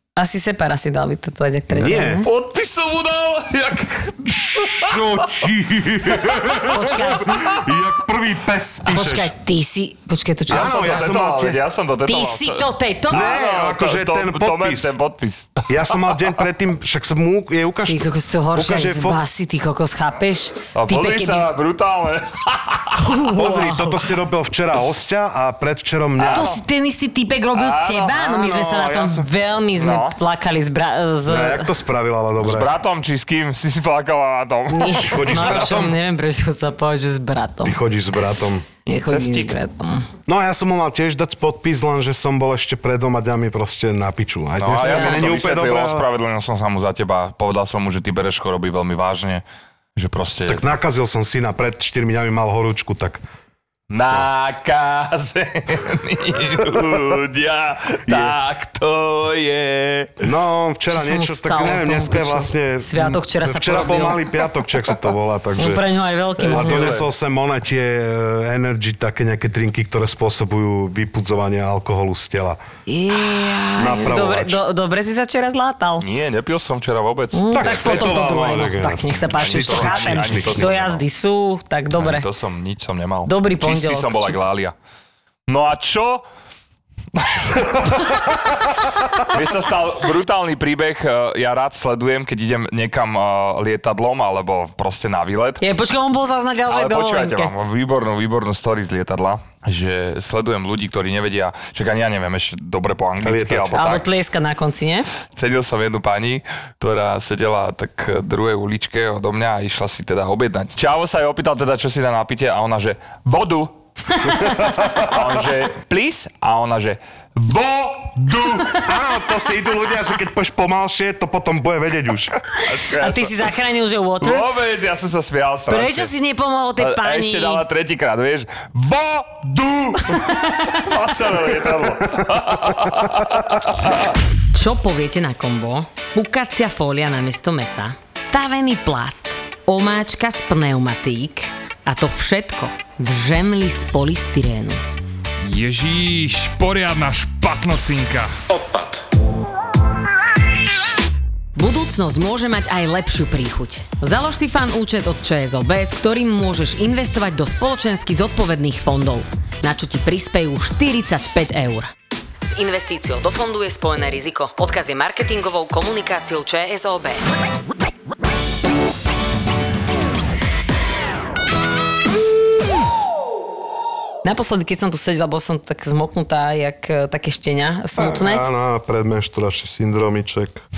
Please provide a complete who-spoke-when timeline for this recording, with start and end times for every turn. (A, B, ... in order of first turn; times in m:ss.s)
0:00.2-0:02.3 A
0:01.7-0:02.2 B
0:02.2-0:05.0 C
0:04.3-0:09.3 B
0:06.1-0:06.6 C
0:06.7-0:07.5 A
0:08.8-0:11.2 A
0:10.5-0:11.6 B
0:10.5-0:15.6 C
0:12.0-0:13.4 A
0:13.1-0:14.9 B
0:15.7-0:19.2 B
0:17.8-0:21.5 A
0:20.7-0:23.0 C
0:23.0-0:24.0 A
0:23.3-0:26.5 B
0:26.2-0:26.6 C
0:26.3-0:31.7 A
0:27.5-0:28.2 C
0:28.1-0:29.3 B
0:29.8-0:30.2 C
0:31.3-0:32.7 B
0:32.4-0:35.5 C
0:34.7-0:37.8 A
0:35.1-0:36.0 B
0:37.6-0:38.6 B
0:38.8-0:40.1 A
0:39.0-0:39.5 C
0:40.3-0:46.0 B
0:44.6-0:49.4 C
0:44.8-0:45.3 A
0:50.0-0:50.6 C
0:50.4-0:53.2 B
0:53.9-1:00.3 C
0:58.1-0:58.3 B
1:00.2-1:05.8 B
1:00.9-1:04.2 A
1:05.6-1:07.0 A
1:06.4-1:07.1 C
1:06.5-1:12.6 B
1:12.9-1:16.0 A
1:13.8-1:14.6 B
1:16.0-1:18.2 C
1:17.3-1:22.3 A
1:17.5-1:20.7 B
1:19.3-1:21.0 C
1:22.0-1:24.7 C
1:23.2-1:24.4 A
1:25.5-1:26.2 C
1:27.2-1:35.6 C
1:35.6-1:37.5 A
1:36.7-1:44.0 C
1:43.2-1:43.8 B
1:43.7-1:45.1 A
1:45.3-1:53.7 C
1:54.2-1:54.6 A
1:54.2-1:55.5 B
1:54.9-1:58.9 C
1:58.7-2:02.3 B
2:02.6-2:04.5 A
2:02.6-2:03.5 C
2:04.2-2:06.1 C
2:05.7-2:07.6 A
2:06.8-2:14.1 C
2:10.1-2:10.8 A
2:14.5-2:24.8 A
2:25.4-2:28.6 C
2:31.6-2:41.9 A
2:42.4-2:47.3 A
2:54.2-2:58.4 A
2:57.9-3:00.6 B